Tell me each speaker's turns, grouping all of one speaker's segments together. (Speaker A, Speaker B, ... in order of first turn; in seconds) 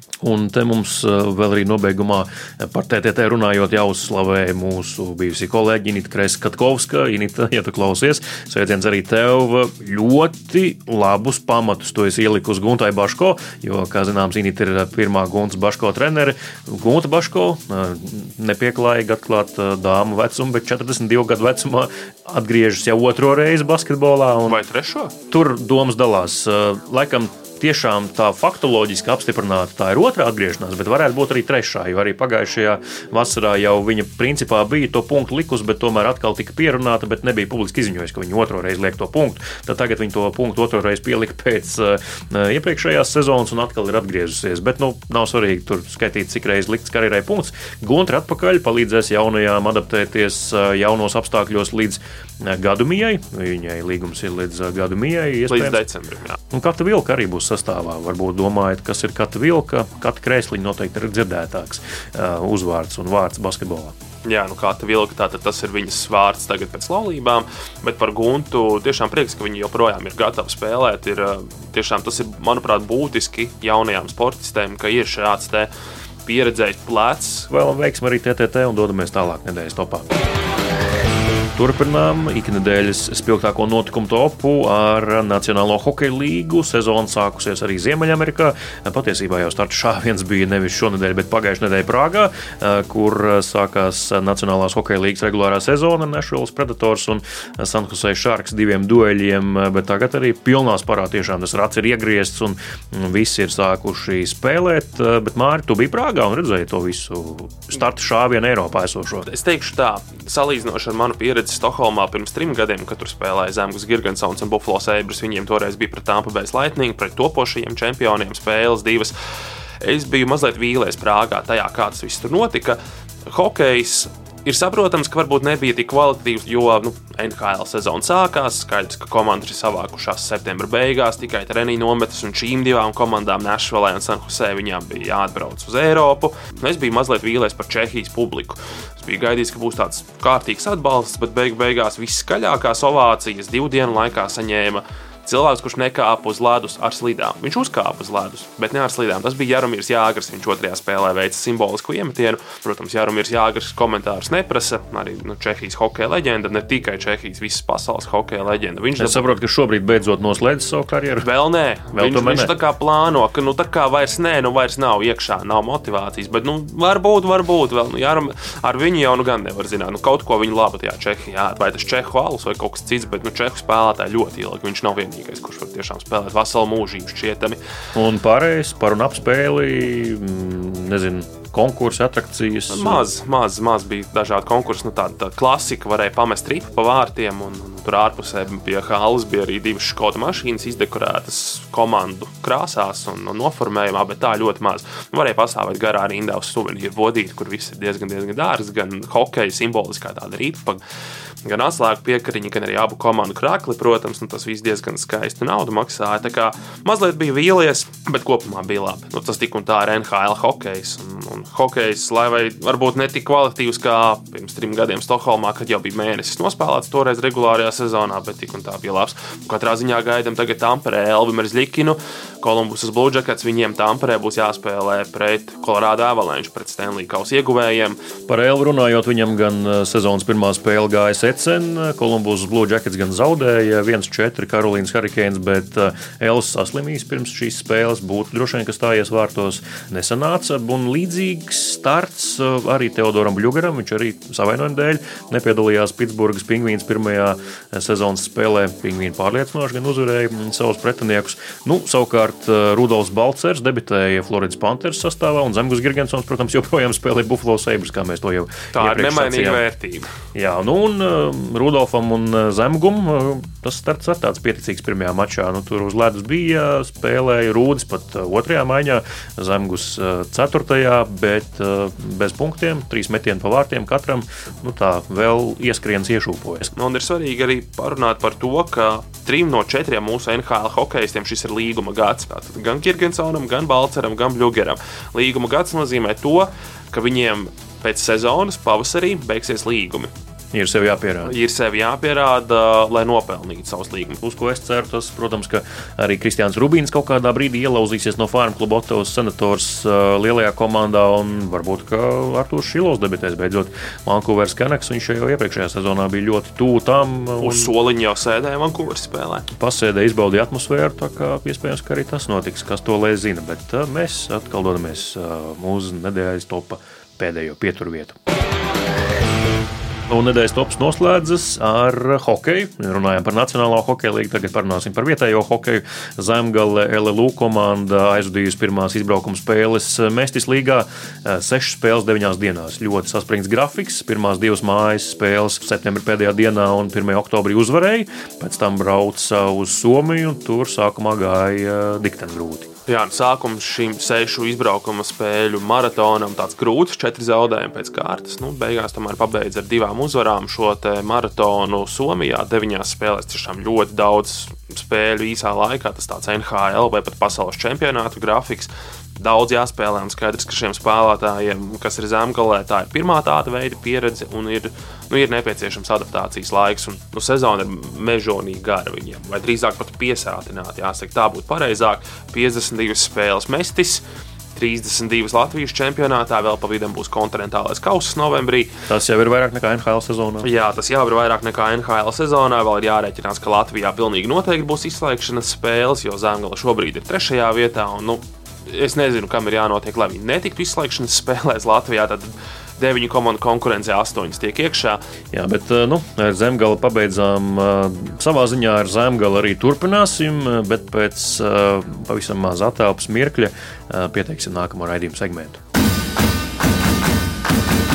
Speaker A: 0.2-24.6, 25.3-55.8, 56.5-64.0, 77.5-80.1, 81.6-109.3, 159.0-161.3, 161.9-162.5, 177.9-183.1, 228.3-259.6, 260.3-276.7, 290.5-291.4, 294.2-307.7, 309.5-318.2, 320.1-342.7, 378.9-380.5, 395.3-405.6
Speaker B: 24.5-25.1, 55.5-56.4, 64.2-75.7, 76.3-77.5, 109.3-119.1, 119.8-159.3, 161.2-177.6, 182.7-200.8, 201.4-228.0, 258.8-260.1, 276.7-290.1, 291.3-294.2, 307.4-309.5, 342.9-374.0, 374.6-378.7, 380.4-395.0